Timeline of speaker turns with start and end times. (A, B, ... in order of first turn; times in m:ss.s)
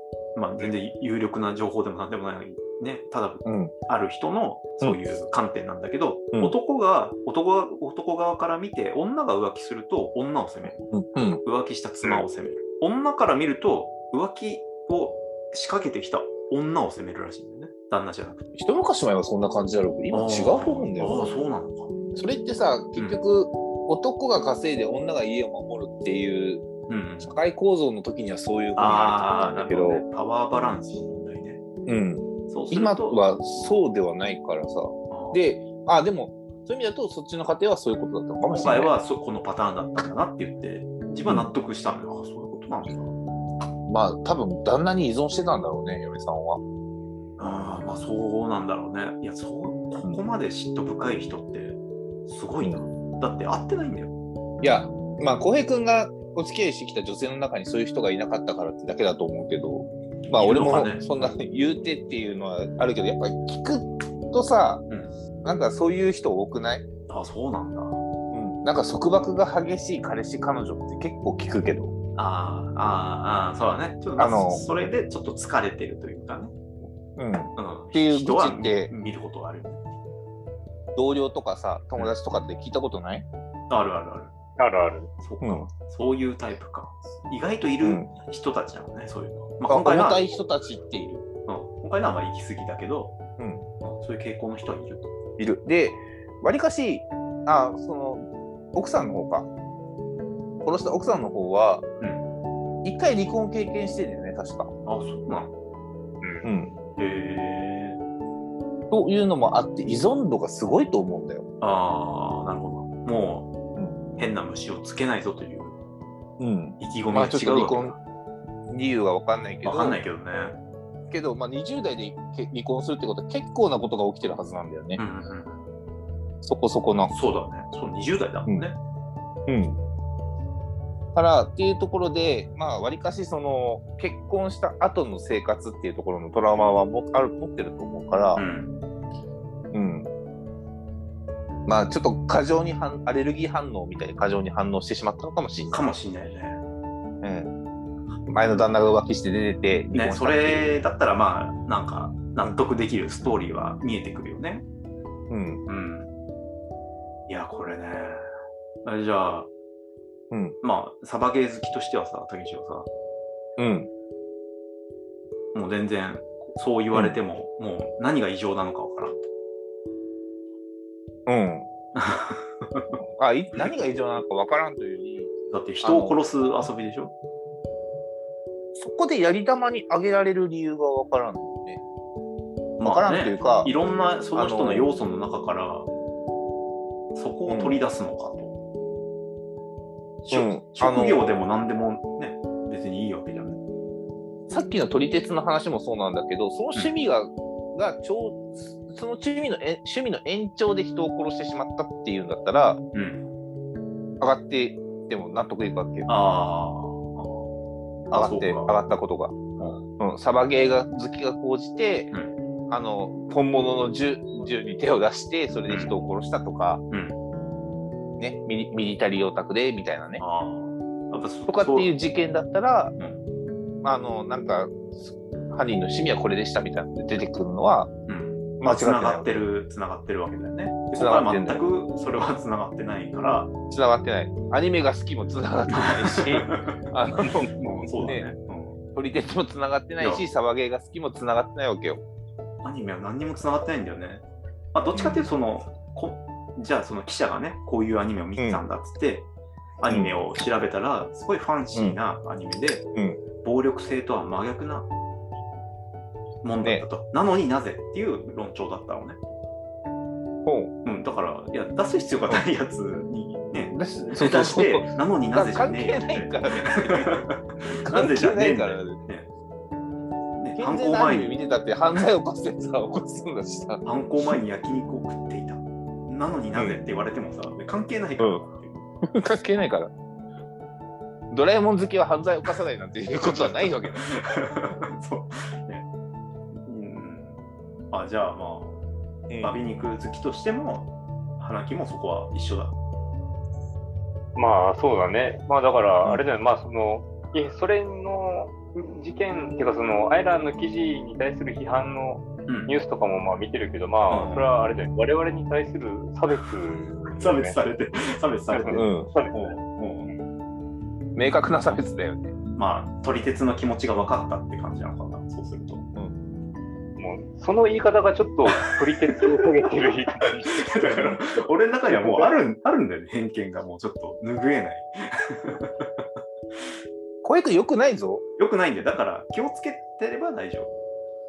0:00.3-0:10.8 A
0:03.4-0:03.7 B
0:10.8-0:11.4 B
0:11.4-0:18.4 A
0:18.5-0:21.2 B
0:20.1-0:21.9 A
0:22.1-0:26.7 B
0:26.9-0:27.3 A
0:27.2-0:30.0 B
0:28.8-0:31.6 A
0:31.9-0:38.9 B
0:32.5-0:33.2 A
0:35.1-0:35.4 A
0:38.5-0:43.1 A
0:41.2-0:41.5 B
0:43.8-0:46.6 B
0:47.4-0:54.1 A
0:47.4-0:47.8 B
0:52.6-0:52.8 B
0:54.6-1:04.8 B
1:00.3-1:01.1 A
1:05.4-1:06.8 B
1:07.1-1:08.0 A
1:08.3-1:11.9 B
1:12.2-1:16.5 A
1:14.2-1:14.6 B
1:17.2-1:18.9 B
1:17.6-1:19.8 A
1:20.9-1:23.2 B
1:23.7-1:24.3 A
1:24.6-1:25.1 C
1:25.2-1:30.2 A
1:25.4-1:25.7 B
1:27.8-1:28.1 B
1:29.7-1:31.2 B
1:31.4-1:33.2 A
1:33.4-1:33.7 B
1:33.8-1:35.1 A
1:35.4-1:39.5 B
1:40.6-1:41.8 B
1:42.8-1:44.7 B
1:44.8-1:45.5 A
1:46.4-1:46.7 B
1:47.0-1:48.0 A
1:48.9-1:51.4 B
1:51.6-1:53.5 A
1:53.7-1:54.0 B
1:54.2-1:55.8 A
1:56.4-1:58.0 B
1:56.8-1:58.0 A
1:58.7-2:00.0 B
1:59.6-2:00.6 A
2:01.1-2:05.0 B
2:05.0-2:05.6 A
2:06.4-2:07.1 B
2:07.1-2:08.7 A
2:09.5-2:09.8 B
2:11.1-2:18.4 B
2:18.3-2:18.8 A
2:19.7-2:20.1 B
2:21.6-2:25.8 B
2:25.7-2:26.6 A
2:27.2-2:27.5 B
2:28.3-2:30.8 B
2:29.9-2:34.6 A
2:35.3-2:35.6 B
2:35.7-2:36.1 A
2:37.3-2:38.2 A
2:38.8-2:39.5 A
2:40.3-2:40.6 B
2:40.6-2:42.9 A
2:43.6-2:43.9 B
2:45.5-2:49.2 A
2:46.9-2:47.2 B
2:51.3-2:51.7 B
2:52.0-2:52.9 A
2:53.2-2:56.2 B
2:55.5-2:57.1 A
2:58.8-3:01.8 B
3:02.8-3:05.9 A
3:02.8-3:03.7 B
3:04.3-3:04.9 B
3:07.1-3:08.5 A
3:07.4-3:07.8 B
3:10.2-3:13.6 A
3:10.3-3:11.2 B
3:14.5-3:22.8 B
3:22.9-3:23.2 A
3:24.2-3:26.1 B
3:26.1-3:27.4 A
3:28.1-3:29.3 B
3:28.1-3:28.8 A
3:29.6-3:29.8 A
3:30.0-3:32.1 B
3:32.7-3:36.8 B
3:35.7-3:36.0 A
3:36.9-3:37.2 A
3:38.2-3:40.2 B
3:40.2-3:41.9 A
3:41.5-3:42.9 B
3:43.0-3:43.2 A
3:43.8-3:47.9 B
3:48.1-3:53.5 A
3:48.6-3:49.4 B
3:50.9-3:51.6 B
3:53.7-3:58.3 B
3:55.7-3:56.8 A
3:57.6-3:58.8 A
3:58.9-4:02.0 B
4:00.0-4:00.2 A
4:02.6-4:09.3 A
4:04.9-4:05.3 B
4:09.8-4:12.8 A
4:12.9-4:13.2 B
4:13.4-4:14.9 A
4:16.4-4:19.2 A
4:20.4-4:20.7 B
4:20.8-4:29.3 A
4:23.7-4:29.0 B
4:30.4-4:31.3 A
4:30.6-4:33.8 B
4:33.8-4:38.9 A
4:36.5-4:36.8 B
4:38.2-4:38.4 B
4:39.0-4:39.9 B
4:41.3-4:44.2 B
4:43.3-4:45.8 A
4:46.6-4:47.4 A
4:47.9-4:48.8 A
4:49.3-4:49.6 B
4:49.4-4:52.7 A
4:54.4-5:07.6 C
5:02.5-5:02.7 A
5:04.1-5:04.4 A
5:07.1-5:10.1 A
5:08.5-5:09.3 C
5:08.7-5:09.2 B
5:11.2-5:12.3 B
5:12.6-5:15.8 A
5:17.0-5:21.1 C
5:19.0-5:26.0 A
5:27.2-5:28.2 B
5:28.4-5:30.7 A